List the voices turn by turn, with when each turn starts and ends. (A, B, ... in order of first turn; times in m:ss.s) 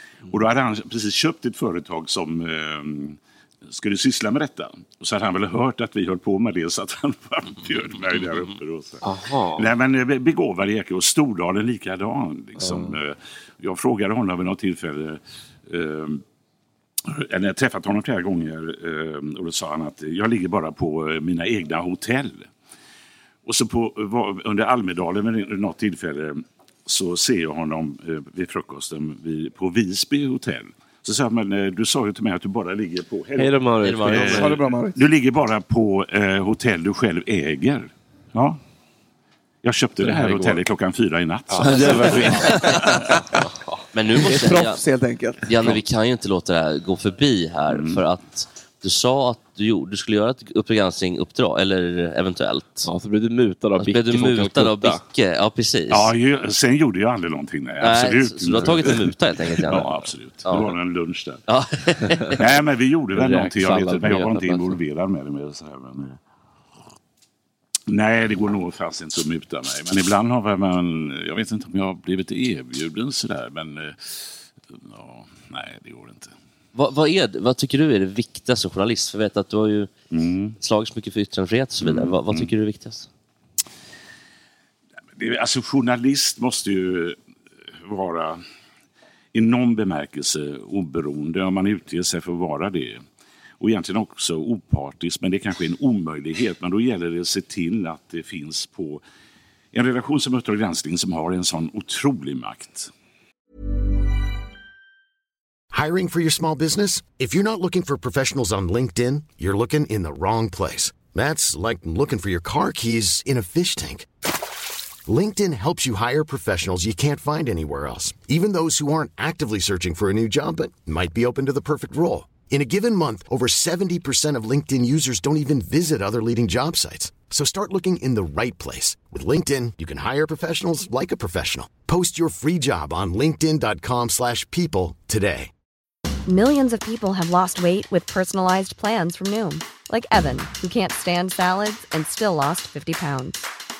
0:00.3-0:16.2 A
0:09.0-0:09.7 B
0:12.6-0:13.0 B
0:17.1-0:22.5 A
0:23.4-0:38.6 A
0:33.4-0:34.6 B
0:33.8-0:34.5 C
0:34.2-0:35.0 D
0:39.6-0:43.0 A
0:40.0-0:40.6 B
0:41.5-0:43.8 B
0:42.4-0:42.9 C
0:43.9-0:44.8 C
0:44.2-0:45.8 D
0:45.4-0:52.9 C
0:47.7-0:48.0 A
0:52.9-0:55.0 B
0:53.8-0:56.1 C
0:55.9-1:01.4 A
0:57.8-0:59.9 C
1:00.4-1:00.7 C
1:01.5-1:02.4 C
1:02.4-1:06.2 A
1:03.1-1:04.8 B
1:07.9-1:16.3 A
1:16.8-1:19.9 C
1:20.1-1:20.6 A
1:20.6-1:23.1 C
1:21.8-1:22.5 A
1:25.2-1:27.2 A
1:27.8-1:28.4 A
1:29.3-1:33.0 A
1:33.6-1:39.0 A
1:39.7-1:42.9 A
1:45.7-1:54.1 E
1:55.1-2:15.5 E
2:16.3-2:23.4 F